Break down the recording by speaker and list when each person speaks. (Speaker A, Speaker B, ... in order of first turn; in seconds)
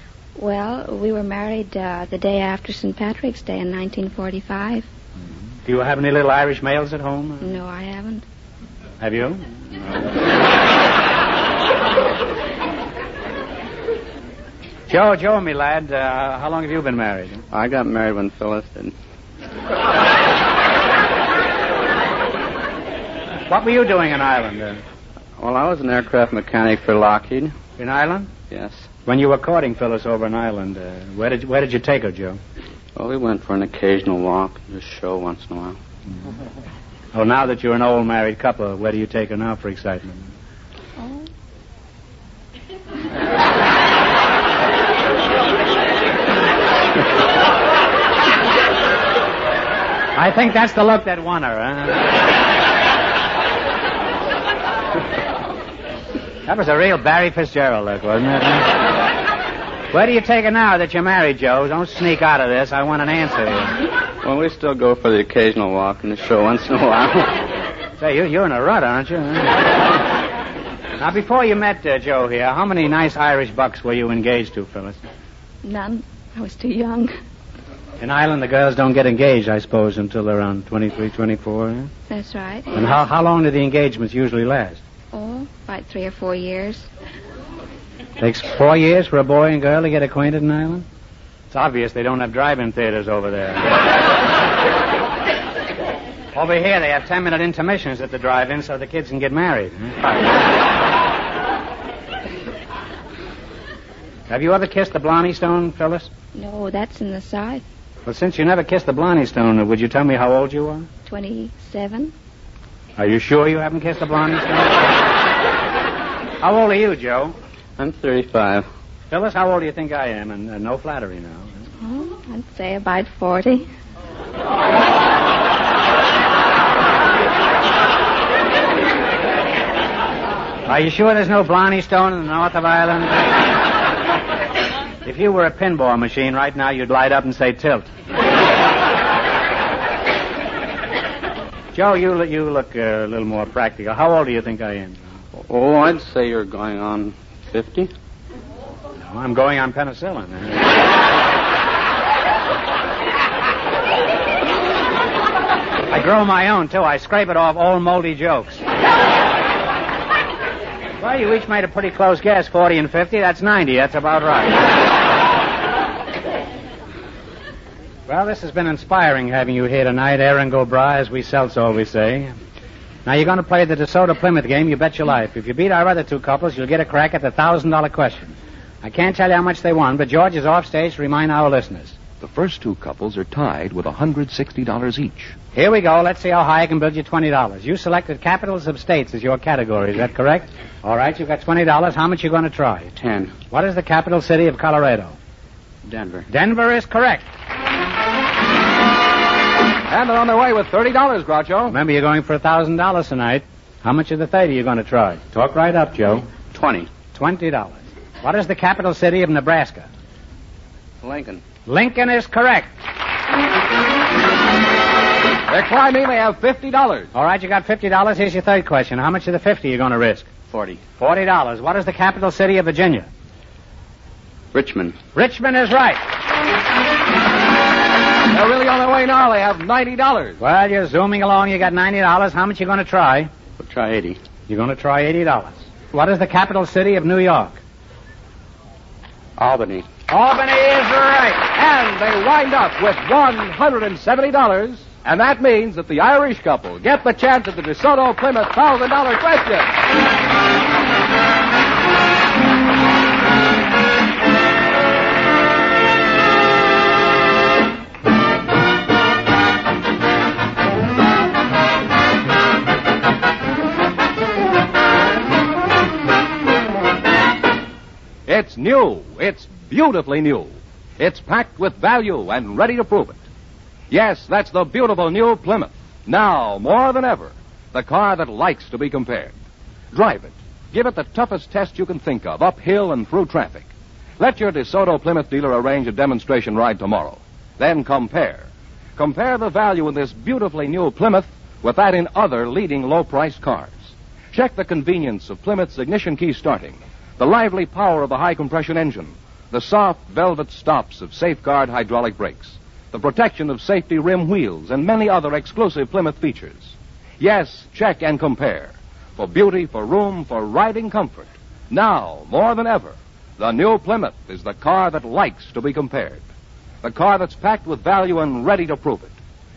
Speaker A: 0.4-4.9, 7.4-8.2, 75.6-77.1, 82.1-82.8, 85.1-86.9, 106.3-107.6, 111.1-112.1, 121.8-123.7
Speaker B: 5.7-7.6, 9.0-9.5, 14.9-17.4, 23.5-24.8, 27.8-28.3, 29.1-32.4, 37.1-40.3, 50.1-52.1, 56.5-58.8, 59.9-63.8, 68.0-69.7, 71.0-75.0, 78.0-81.9, 82.7-84.8, 88.2-90.9, 91.5-93.8, 96.3-100.3, 104.3-106.1, 108.1-110.9, 113.0-114.9, 116.4-117.4, 119.1-121.6, 130.7-133.3, 135.0-137.9, 141.7-145.0, 149.0-150.7, 155.9-158.6, 161.0-164.7, 168.1-172.3, 173.1-182.0, 185.5-192.9, 193.5-195.2, 196.3-197.3, 201.7-206.3, 207.1-209.9, 211.7-212.8, 217.1-220.3, 221.0-223.1, 225.2-226.0, 230.4-233.3, 234.5-237.6, 240.1-241.4
Speaker C: 17.5-18.9, 25.4-27.6, 28.5-28.9, 33.0-35.8, 64.2-67.4, 117.8-118.7, 145.4-147.9, 193.0-193.4, 195.9-196.3, 206.5-206.9, 211.0-211.4, 220.5-220.8, 224.5-225.0, 233.6-234.2, 239.4-239.9
Speaker D: 182.2-185.3, 199.9-201.8, 215.5-217.1, 228.3-230.4, 241.5-249.7, 268.3-273.2, 273.9-279.3, 279.9-316.2, 316.8-319.1